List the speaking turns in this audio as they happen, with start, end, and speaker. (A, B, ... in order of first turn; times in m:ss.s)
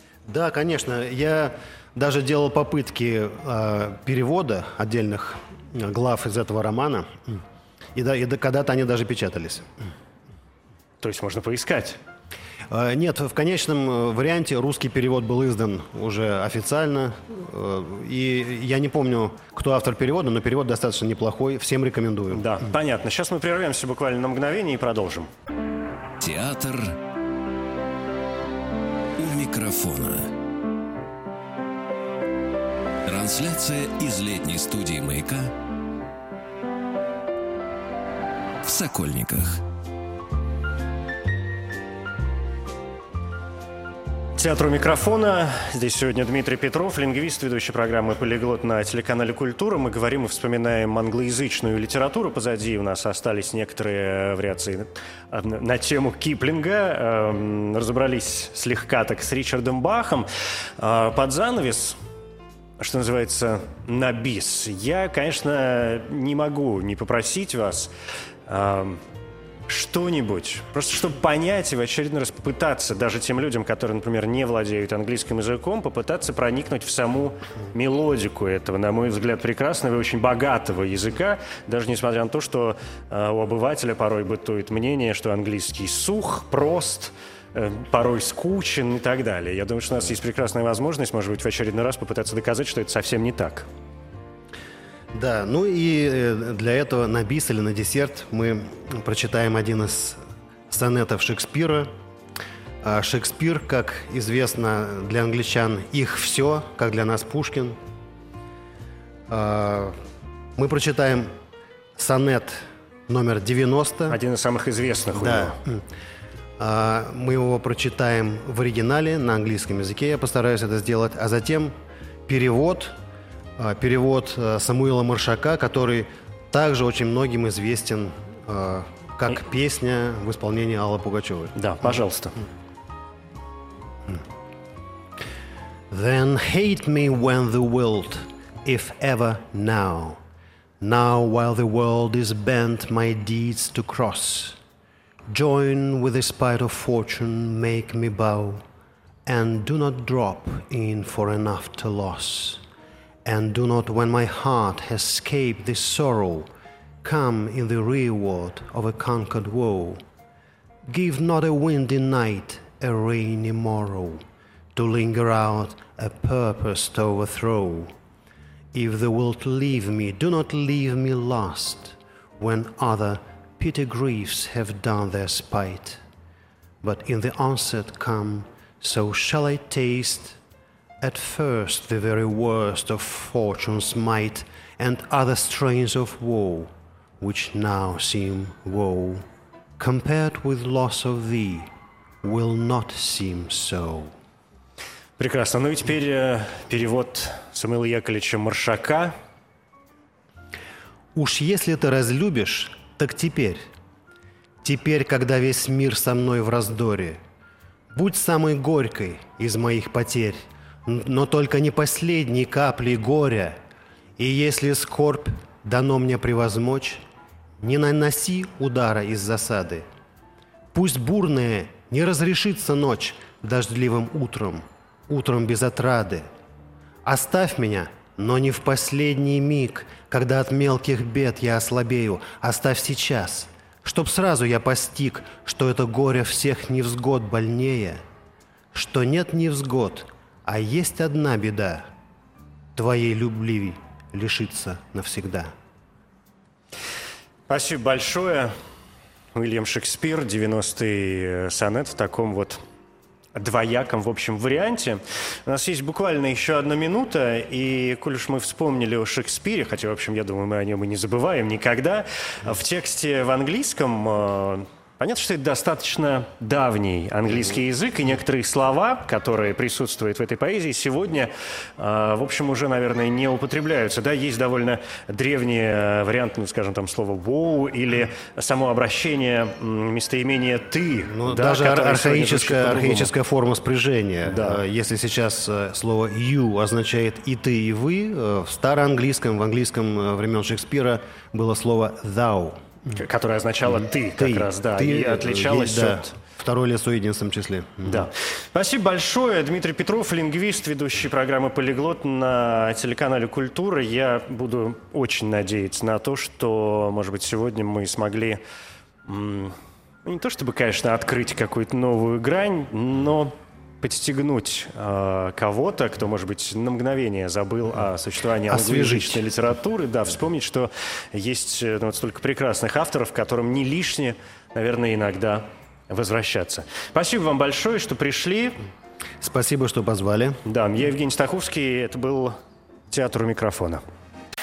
0:00.3-0:07.4 A
0:08.0-0:09.7 A
0:11.0-0:12.0 B
0:12.7-0:22.5 A
0:22.3-0:25.3 B
0:26.2-0:27.0 C
0:29.2-0:30.3 C
0:33.1-0:35.5 C
0:38.6-0:39.6 C
0:44.4-1:02.0 B
1:02.8-1:07.9 B
1:08.5-1:09.0 B
1:09.7-1:33.7 B
1:35.1-1:40.2 A
1:40.7-1:41.9 A
1:42.8-1:47.8 A
1:49.3-1:50.0 A
1:50.6-1:51.3 A
1:52.0-1:54.2 A
1:54.1-1:55.6 B
1:55.2-1:55.8 A
1:56.6-2:01.7 A
2:02.3-2:03.0 A
2:03.6-2:11.6 A
2:11.6-2:12.4 B
2:15.9-2:20.2 A
2:20.8-2:24.6 A
2:25.3-2:28.6 A
2:29.3-2:32.6 A
2:33.2-2:36.5 A
2:37.0-2:40.0 A
2:40.9-2:44.2 A
2:44.7-2:47.9 A
2:48.7-2:56.0 A
2:56.8-3:00.4 A
3:01.0-3:09.2 A
3:09.8-3:11.7 A
3:12.2-3:14.1 A
3:15.2-3:19.2 B
3:21.2-3:23.6 A
3:24.6-3:27.2 A
3:27.9-3:33.6 A
3:34.2-3:37.0 A
3:37.6-3:39.8 A
3:40.7-3:46.2 A
3:47.0-3:58.0 A
3:58.7-4:01.9 A
4:02.8-4:05.5 A
4:07.5-4:08.5 B
4:09.3-4:12.6 B
4:13.4-4:43.1 B
4:41.1-4:52.6 A
4:44.3-4:44.6 B
4:52.9-4:56.1 B
4:54.2-4:58.1 A
4:57.8-5:08.4 B
5:09.1-5:28.6 B
5:18.5-5:19.2 A
5:29.2-5:30.4 A
5:30.4-5:32.4 B
5:32.9-5:33.8 B